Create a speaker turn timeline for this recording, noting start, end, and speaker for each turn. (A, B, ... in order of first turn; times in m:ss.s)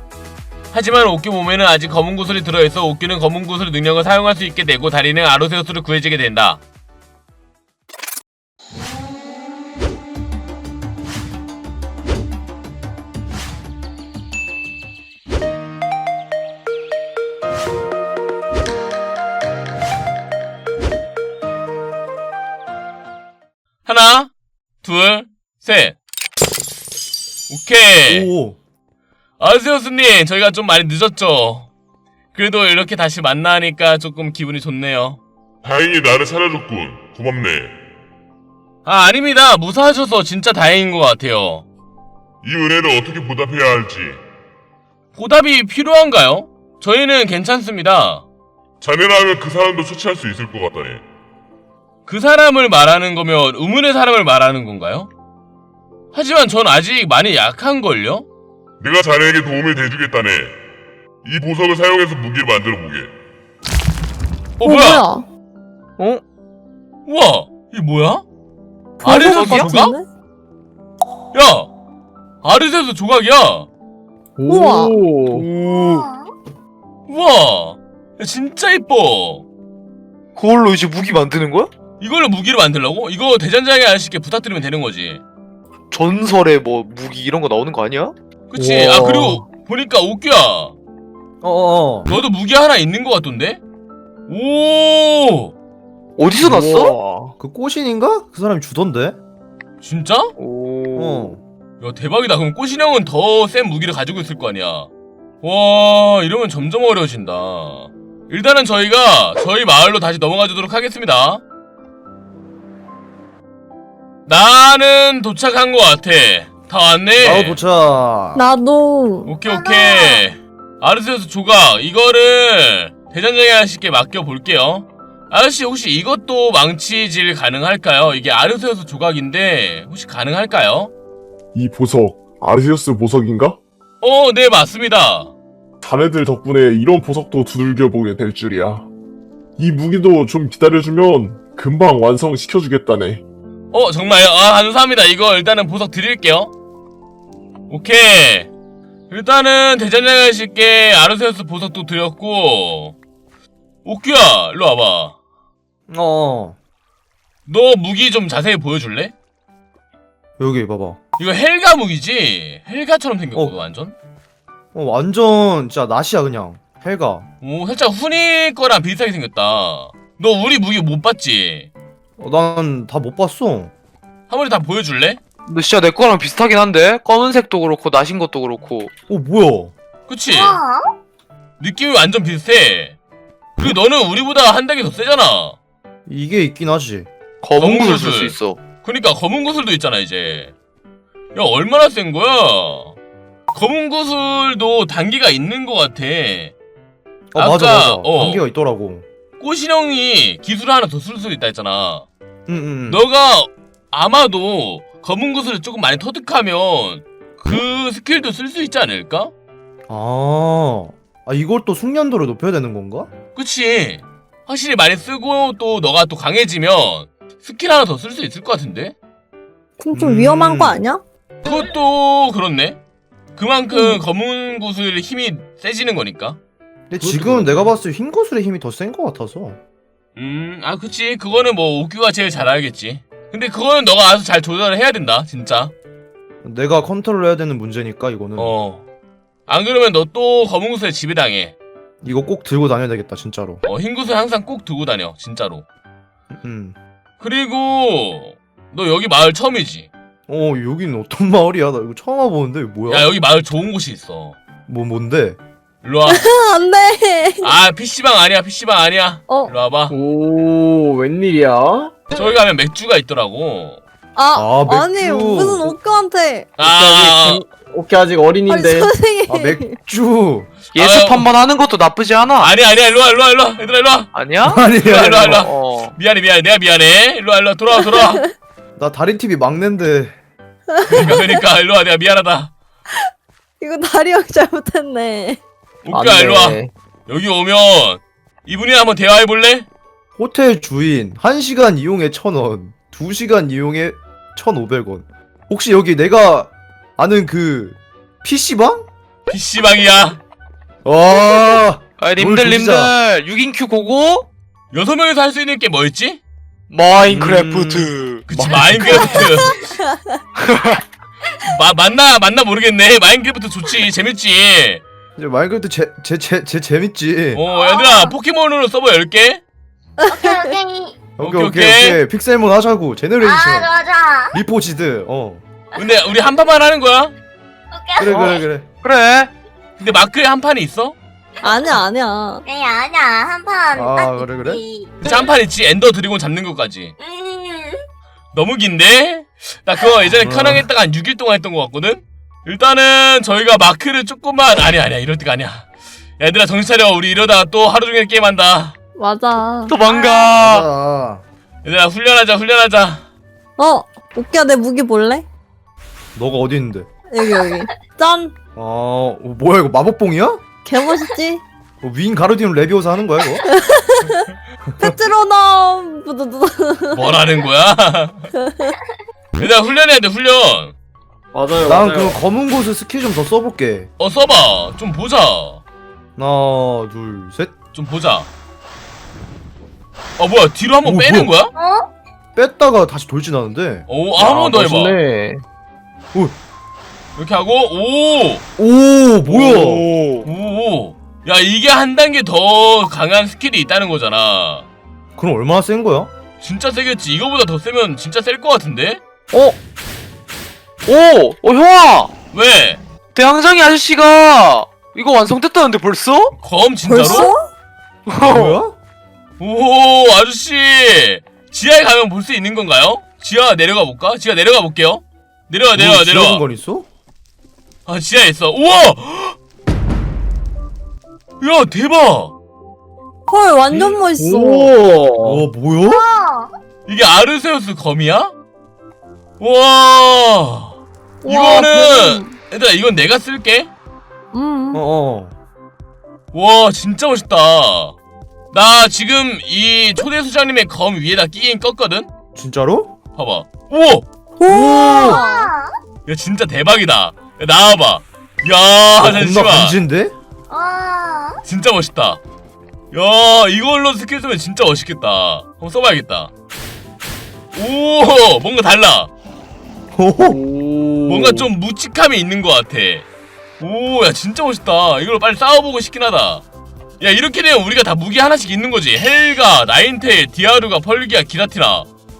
0:00.7-0:06.6 A
0:23.8-0:24.3 A
0:24.8-0:26.0 A
0:27.5-0:28.3 A
0:28.1-0:28.6 B
0:29.4-0:31.7 A
0:32.3-0:35.2 A
0:35.6-0:37.7 C
0:38.8-0:41.6 A
0:42.4-0:44.2 C
0:45.1-0:48.2 A
0:48.8-0:51.0 C
0:52.0-0:55.1 A
0:56.1-0:58.2 A
0:58.8-1:00.6 C
1:01.2-1:03.1 C
1:04.6-1:05.0 A
1:04.6-1:05.2 D
1:07.0-1:08.2 A
1:09.0-1:10.1 D
1:09.0-1:09.9 A
1:09.1-1:09.7 E
1:11.3-1:11.7 A
1:12.4-1:13.7 A
1:14.4-1:15.5 F
1:14.5-1:15.0 D
1:15.3-1:16.0 E
1:15.8-1:16.3 G
1:17.1-1:19.4 A
1:20.3-1:21.7 E
1:22.0-1:25.2 A
1:25.9-1:28.1 E
1:28.5-1:30.7 A
1:28.6-1:29.4 B
1:31.4-1:32.2 B
1:32.1-1:33.6 A
1:34.3-1:35.5 A
1:36.2-1:37.3 E
1:37.4-1:39.2 B
1:39.8-1:40.3 A
1:40.4-1:41.4 E
1:40.9-1:41.4 B
1:41.8-1:44.9 A
1:45.4-1:51.4 A
1:54.2-1:57.6 A
1:57.2-1:58.4 B
1:58.3-1:59.3 D
1:59.2-2:10.9 A
1:59.5-2:00.2 G
2:11.5-2:13.6 H
2:14.0-2:15.3 A
2:15.8-2:18.9 H
2:19.6-2:23.2 H
2:23.7-2:26.5 A
2:27.7-2:28.5 A
2:29.1-2:33.0 A
2:33.8-2:35.2 A
2:35.9-2:36.6 B
2:37.5-2:39.1 A
2:40.4-2:41.0 B
2:41.2-2:43.9 A
2:44.7-2:47.2 B
2:47.4-2:51.7 A
2:52.2-2:53.7 B
2:54.3-2:55.2 A
2:55.5-2:58.9 E
2:59.1-2:59.7 B
3:00.1-3:00.6 A
3:00.3-3:00.8 G
3:01.6-3:03.0 A
3:03.6-3:05.6 A
3:06.0-3:07.1 B
3:07.4-3:08.6 E
3:07.6-3:10.5 A
3:11.3-3:13.0 A
3:13.5-3:16.5 A
3:17.3-3:19.0 B
3:17.4-3:18.4 A
3:19.4-3:22.0 A
3:22.5-3:23.0 B
3:22.9-3:29.3 A
3:29.9-3:33.1 B
3:33.3-3:38.9 A
3:39.8-3:41.0 D
3:39.9-3:40.8 B
3:41.4-3:42.8 A
3:43.4-3:46.4 A
3:43.7-3:44.0 D
3:46.9-3:49.6 B
3:47.0-3:47.6 A
3:50.2-3:55.7 A
3:56.4-3:58.5 B
3:58.4-3:58.8 A
3:59.5-4:01.6 A
4:02.0-4:03.6 B
4:03.6-4:05.6 A
4:06.3-4:06.8 B
4:07.2-4:09.9 A
4:10.3-4:13.1 B
4:12.9-4:14.4 A
4:14.7-4:15.4 B
4:15.8-4:16.3 A
4:16.1-4:17.5 D
4:17.4-4:19.9 A
4:19.3-4:19.5 D
4:19.9-4:22.0 F
4:22.1-4:23.8 A
4:24.2-4:26.6 D
4:24.4-4:25.7 B
4:26.6-4:27.4 A
4:26.6-4:28.9 F
4:28.5-4:29.8 D
4:29.3-4:30.5 B
4:30.7-4:32.5 E
4:30.7-4:31.3 A
4:32.4-4:34.1 A
4:34.1-4:34.6 E
4:34.4-4:35.4 B
4:34.7-4:38.2 A
4:35.2-4:35.9 E
4:37.8-4:38.2 D
4:38.8-4:40.1 B
4:40.8-4:42.5 A
4:43.6-4:45.4 D
4:45.8-4:49.7 A
4:46.2-4:46.7 F
4:50.2-4:58.9 B
4:59.3-5:00.2 A
5:00.8-5:02.9 B
5:02.0-5:04.3 E
5:04.7-5:06.2 A
5:06.7-5:08.2 E
5:07.0-5:09.4 B
5:08.3-5:09.6 A
5:09.8-5:10.2 D
5:10.4-5:10.8 E
5:11.4-5:14.8 A
5:15.2-5:17.4 B
5:17.3-5:19.4 A
5:17.5-5:18.1 G
5:20.0-5:21.0 G
5:20.0-5:20.5 D
5:21.2-5:23.7 B
5:21.2-5:22.0 A
5:23.2-5:24.4 G
5:24.3-5:25.4 B
5:25.8-5:27.1 A
5:27.7-5:28.4 G
5:28.0-5:28.6 B
5:28.0-5:29.3 E
5:29.8-5:31.0 A
5:31.4-5:32.4 D
5:31.4-5:31.8 G
5:32.4-5:34.9 G
5:33.7-5:34.6 B
5:35.0-5:36.9 A
5:37.0-5:37.8 G
5:38.3-5:45.7 A
5:40.2-5:40.6 B
5:46.2-5:48.8 A
5:49.0-5:49.8 D
5:49.7-5:50.6 E
5:49.8-5:50.3 G
5:50.4-5:51.2 B
5:51.6-5:53.0 A
5:53.6-5:55.2 D
5:56.1-5:56.9 B
5:57.1-5:58.3 D
5:57.2-5:57.8 G
5:58.6-6:00.4 B
6:00.6-6:01.4 D
6:01.8-6:03.4 B
6:03.5-6:04.3 D
6:04.7-6:05.0 B
6:04.8-6:07.0 D
6:06.9-6:08.3 A
6:08.4-6:08.7 D
6:09.4-6:10.7 A
6:11.3-6:12.2 F
6:11.6-6:13.9 B
6:14.0-6:15.6 A
6:16.2-6:17.5 B
6:17.7-6:18.3 A
6:20.2-6:21.5 A
6:20.8-6:21.3 B
6:21.6-6:21.9 G
6:22.3-6:23.8 B
6:23.9-6:25.0 A
6:24.5-6:25.2 F
6:25.0-6:25.4 E
6:27.2-6:28.4 A
6:28.6-6:29.8 B
6:29.4-6:30.2 E
6:30.2-6:34.7 A
6:35.2-6:36.1 B
6:36.4-6:39.0 A
6:40.8-6:42.1 E
6:42.3-6:42.8 A
6:43.1-6:46.3 E
6:46.4-6:47.3 A
6:46.9-6:47.5 D
6:48.1-6:48.6 E
6:48.2-6:48.8 B
6:49.4-6:56.4 A
6:55.7-6:56.9 B
6:57.8-6:59.4 A
7:01.4-7:02.3 A
7:03.3-7:04.8 D
7:04.1-7:05.4 F
7:05.2-7:06.0 B
7:05.9-7:06.5 G
7:06.8-7:08.3 A
7:09.4-7:13.7 A
7:11.2-7:12.3 D
7:14.3-7:14.8 D
7:14.7-7:15.3 B
7:16.3-7:18.0 A
7:18.5-7:22.1 A
7:22.3-7:22.9 B
7:23.2-7:24.0 A
7:24.4-7:25.5 D
7:24.4-7:25.2 B
7:24.7-7:25.7 G
7:26.0-7:29.8 A
7:29.0-7:30.1 B
7:30.5-7:31.4 G
7:31.4-7:32.2 A
7:32.9-7:36.3 A
7:37.5-7:39.1 A
7:39.9-7:40.4 B
7:40.2-7:41.4 F
7:41.1-7:43.0 A
7:43.6-7:46.4 A
7:47.0-7:51.9 A